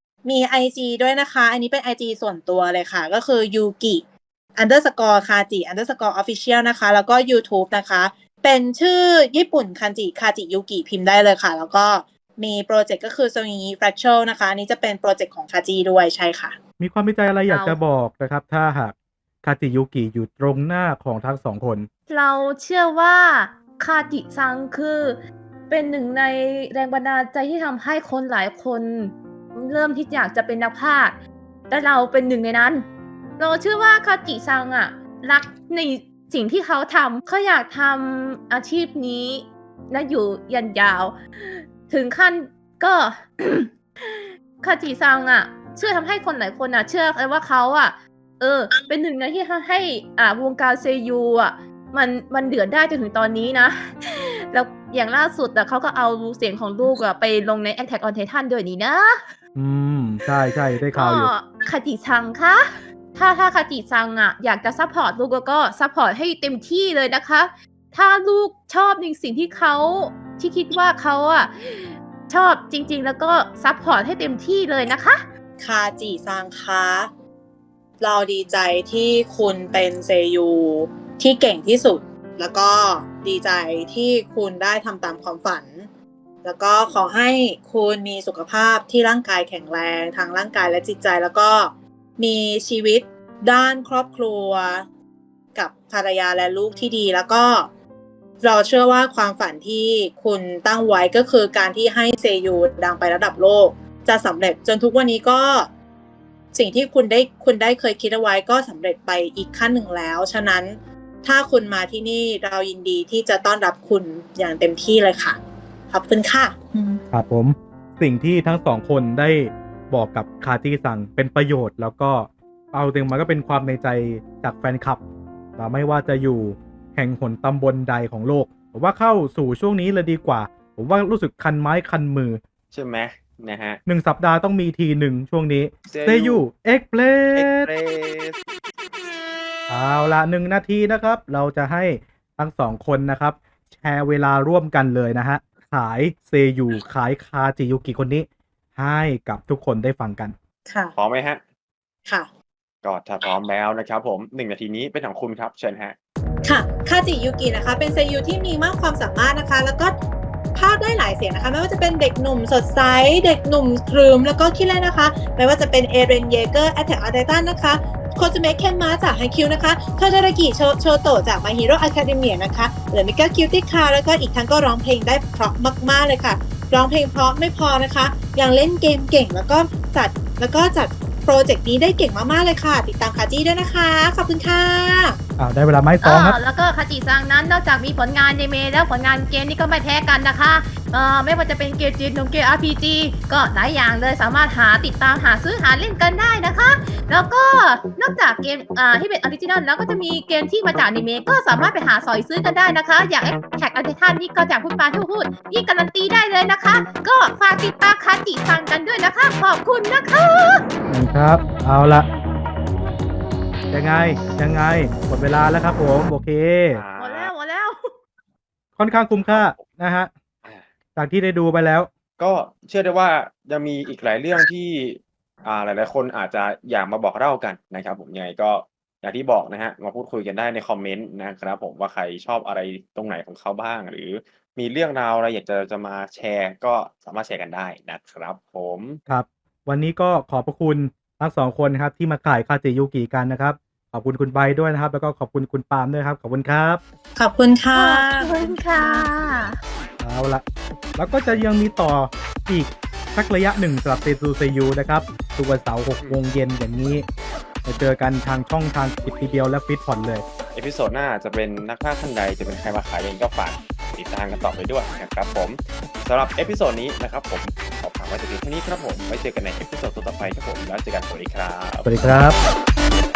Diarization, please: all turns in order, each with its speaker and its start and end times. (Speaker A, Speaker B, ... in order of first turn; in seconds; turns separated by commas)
Speaker A: 0.2-4.0, Speaker A: 4.6-16.6, Speaker B: 16.8-21.9, Speaker C: 17.5-17.8, Speaker C: 22.1-32.9, Speaker C: 33.4-59.2, Speaker B: 59.5-61.3, Speaker C: 60.9-75.2, Speaker A: 75.6-77.1, Speaker A: 78.0-85.9, Speaker A: 86.4-94.9, Speaker A: 95.5-97.7, Speaker A: 98.4-105.7, Speaker A: 106.5-117.0, Speaker B: 117.1-125.0, Speaker B: 125.6-132.4, Speaker D: 132.7-133.8, Speaker B: 133.9-137.7, Speaker D: 135.9-136.4, Speaker D: 137.3-138.4, Speaker B: 139.7-150.3, Speaker A: 150.7-150.9, Speaker D: 150.9-151.4, Speaker D: 152.8-156.0, Speaker A: 156.4-160.0, Speaker A: 160.6-185.2, Speaker B: 185.4-186.4, Speaker C: 186.0-210.6, Speaker B: 210.9-212.1, Speaker B: 213.7-216.8, Speaker D: 216.7-217.3, Speaker C: 217.0-217.9, Speaker B: 218.8-220.1, Speaker D: 219.2-219.7, Speaker B: 221.0-221.9, Speaker D: 222.2-239.0, Speaker B: 239.1-246.8, Speaker A: 247.2-249.1, Speaker C: 247.7-249.6, Speaker B: 250.0-250.4, Speaker B: 251.0-257.1, Speaker B: 257.6-260.2, Speaker D: 260.5-272.0, Speaker B: 271.8-272.4